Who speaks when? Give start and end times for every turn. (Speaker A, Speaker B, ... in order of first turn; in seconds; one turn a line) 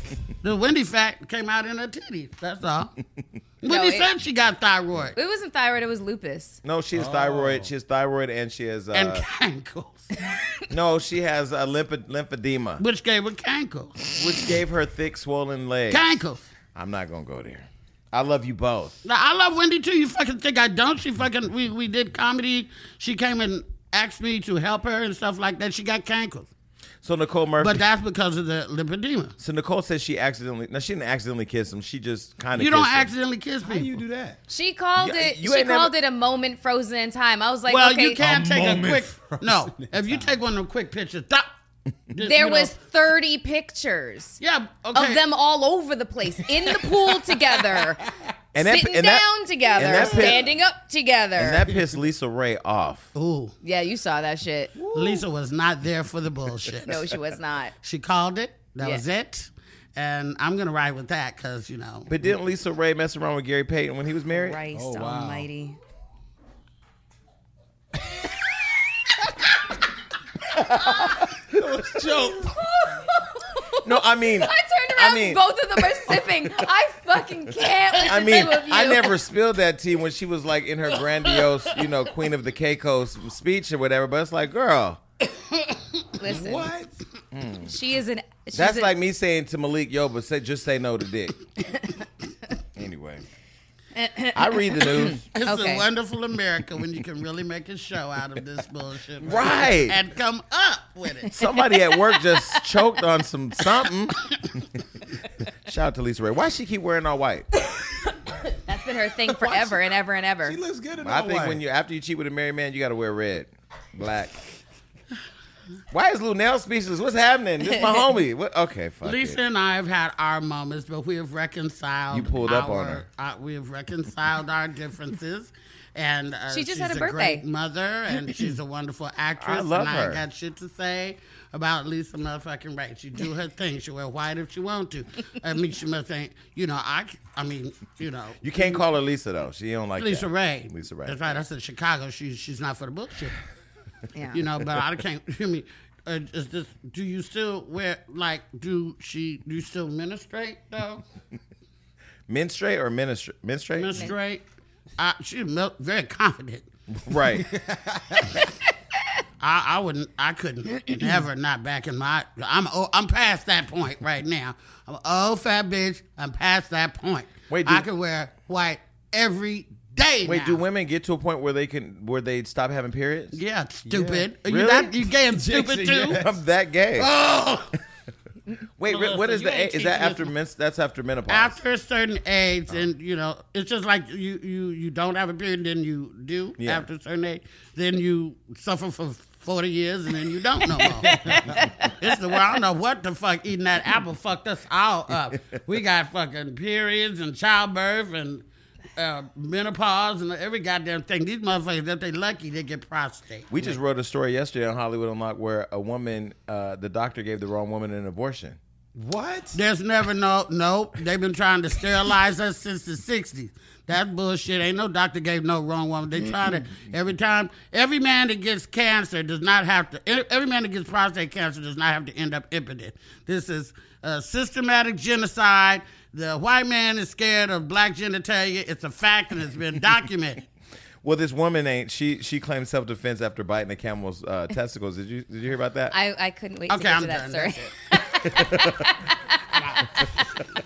Speaker A: 0.4-2.9
Speaker A: 3.6-5.2
Speaker B: 3.6-4.1
Speaker B: 5.1-6.6
Speaker C: 6.6-9.2
Speaker D: 6.9-7.7
Speaker A: 8.9-10.3
Speaker C: 10.7-12.8
Speaker A: 12.8-14.1
Speaker C: 14.1-16.1
Speaker A: 15.9-16.4
Speaker C: 16.7-19.0
Speaker A: 19.0-26.5
Speaker C: 27.0-27.8
Speaker A: 27.6-29.3
Speaker C: 29.4-33.1
Speaker A: 32.5-33.9
Speaker D: 33.6-34.4
Speaker B: 34.5-38.2
Speaker C: 35.0-35.9
Speaker A: 37.7-41.5
Speaker D: 38.2-40.3
Speaker A: 42.1-42.7
Speaker B: 42.2-44.4
Speaker A: 44.4-45.2
Speaker B: 44.9-48.0
Speaker D: 46.9-48.1
Speaker C: 48.5-50.5
Speaker B: 48.6-51.6
Speaker D: 49.8-50.3
Speaker C: 51.4-53.1
Speaker A: 53.1-53.5
Speaker B: 53.6-54.7
Speaker D: 54.8-55.2
Speaker A: 54.9-57.0
Speaker B: 56.9-57.7
Speaker A: 57.8-62.1
Speaker C: 62.1-64.6
Speaker B: 64.3-65.8
Speaker D: 64.7-65.5
Speaker C: 70.5-71.4
Speaker D: 71.4-72.6
Speaker B: 72.5-79.2
Speaker C: 73.8-75.4
Speaker C: 78.0-85.0
Speaker B: 86.2-86.7
Speaker D: 86.2-86.9
Speaker C: 87.3-87.7
Speaker B: 87.6-88.9
Speaker C: 88.5-91.4
Speaker C: 92.8-93.2
Speaker B: 93.9-95.8
Speaker C: 94.3-95.2
Speaker A: 95.3-101.4
Speaker C: 99.2-100.0
Speaker C: 101.3-104.6
Speaker B: 101.4-102.6
Speaker C: 105.6-107.5
Speaker B: 108.5-110.6
Speaker D: 109.4-109.7
Speaker D: 110.4-111.6
Speaker C: 111.0-114.3
Speaker C: 115.9-119.4
Speaker A: 119.0-138.8
Speaker C: 122.1-123.0
Speaker B: 126.5-127.4
Speaker C: 129.4-130.2
Speaker C: 138.4-141.2
Speaker A: 140.0-143.4
Speaker B: 144.1-144.4
Speaker A: 144.3-151.0
Speaker C: 152.3-154.1
Speaker A: 153.8-154.4
Speaker A: 155.0-156.7
Speaker C: 156.9-157.5
Speaker A: 159.4-170.6
Speaker C: 167.5-167.8
Speaker C: 170.2-175.0
Speaker A: 173.3-176.2
Speaker D: 175.3-176.2
Speaker C: 176.1-177.1
Speaker A: 177.0-177.7
Speaker C: 178.8-181.6
Speaker A: 178.9-180.3
Speaker A: 181.3-198.4
Speaker C: 186.6-186.8
Speaker B: 190.8-192.0
Speaker A: 198.9-203.8
Speaker C: 203.5-208.6
Speaker D: 208.9-209.6
Speaker A: 209.5-230.4
Speaker C: 231.0-235.9
Speaker B: 235.9-240.3
Speaker A: 236.7-237.7
Speaker C: 238.3-238.7
Speaker A: 239.6-239.9